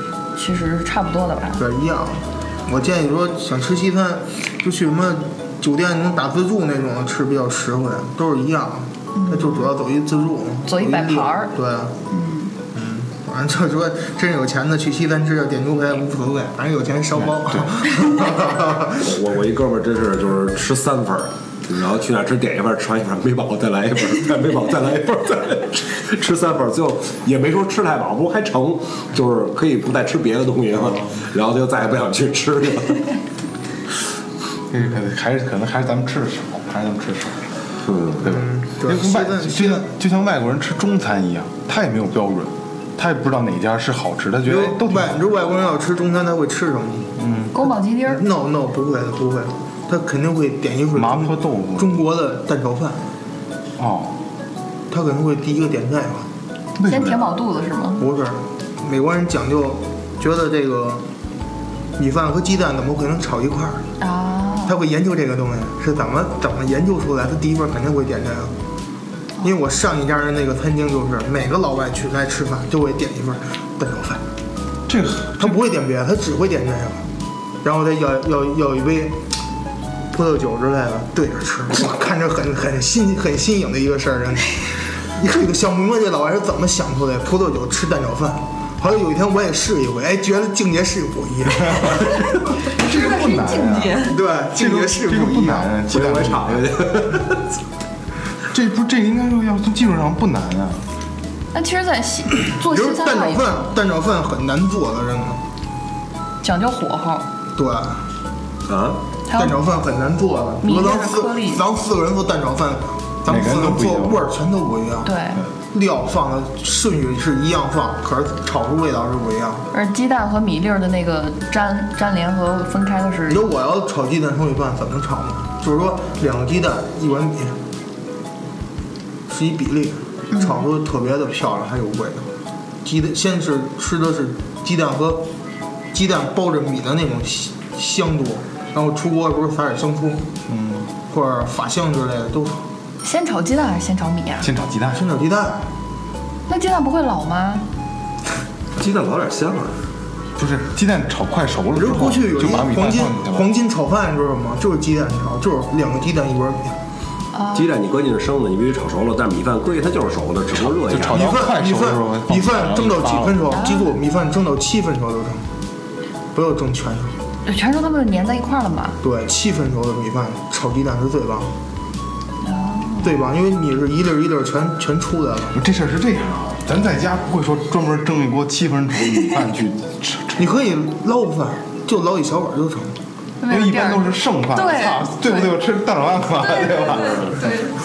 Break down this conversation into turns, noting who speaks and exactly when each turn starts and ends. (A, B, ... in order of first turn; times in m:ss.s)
0:00.3-0:01.6 A
0:01.6-0:12.0 B
0:09.1-0:09.7 A
0:10.7-0:11.5 A
0:12.1-0:12.5 A
0:12.7-0:19.1 B
0:17.2-0:17.7 C
0:19.0-0:33.2 D
0:30.8-0:31.0 C
0:34.7-0:37.6 C
0:37.8-0:38.3 D
0:38.2-0:45.1 C
0:38.2-0:39.9 B
0:44.5-0:47.1 B
0:47.2-0:47.6 C
0:47.5-0:48.2 A
0:48.0-0:53.1 B
0:50.9-0:51.9 C
0:53.8-0:54.2 C
0:54.9-0:56.3 B
0:56.8-0:57.3 C
0:56.8-0:58.0 A
0:58.0-1:01.0 B
1:02.0-1:03.8 B
1:04.0-1:04.8 A
1:04.6-1:08.5 B
1:09.4-1:14.2 B
1:14.9-1:15.6 C
1:15.4-1:17.1 B
1:17.6-1:19.2 B
1:20.1-1:32.2 B
1:32.6-1:37.2 C
1:32.8-1:34.2 A
1:34.0-1:35.7 B
1:35.9-1:37.5 D
1:38.5-1:40.8 C
1:41.5-1:43.5 A
1:42.6-1:45.4 B
1:46.4-1:47.3 A
1:47.6-1:48.1 B
1:48.7-1:49.0 D
1:49.3-1:49.6 A
1:49.3-1:55.1 B
1:50.6-1:51.6 A
1:53.2-1:54.2 C
1:55.0-1:55.4 A
1:55.7-1:59.7 B
1:59.7-2:03.4 A
2:03.3-2:07.6 B
2:09.3-2:12.3 B
2:10.3-2:10.6 A
2:12.8-2:15.3 B
2:15.9-2:20.3 B
2:20.5-2:20.9 C
2:21.1-2:22.6 B
2:23.0-2:24.5 A
2:24.4-2:25.0 C
2:24.9-2:25.7 B
2:26.5-2:27.7 A
2:28.8-2:29.8 D
2:30.4-2:33.5 C
2:31.7-2:36.8 B
2:37.3-2:37.7 A
2:37.5-2:41.3 D
2:40.5-2:43.4 C
2:41.1-2:45.5 B
2:43.5-2:43.9 A
2:46.3-2:47.2 B
2:47.4-2:49.0 A
2:49.0-2:51.5 B
2:52.4-2:53.1 A
2:53.0-2:55.6 B
2:55.5-3:00.5 C
3:00.4-3:03.0 B
3:03.4-3:05.6 A
3:03.4-3:07.6 C
3:06.7-3:07.6 A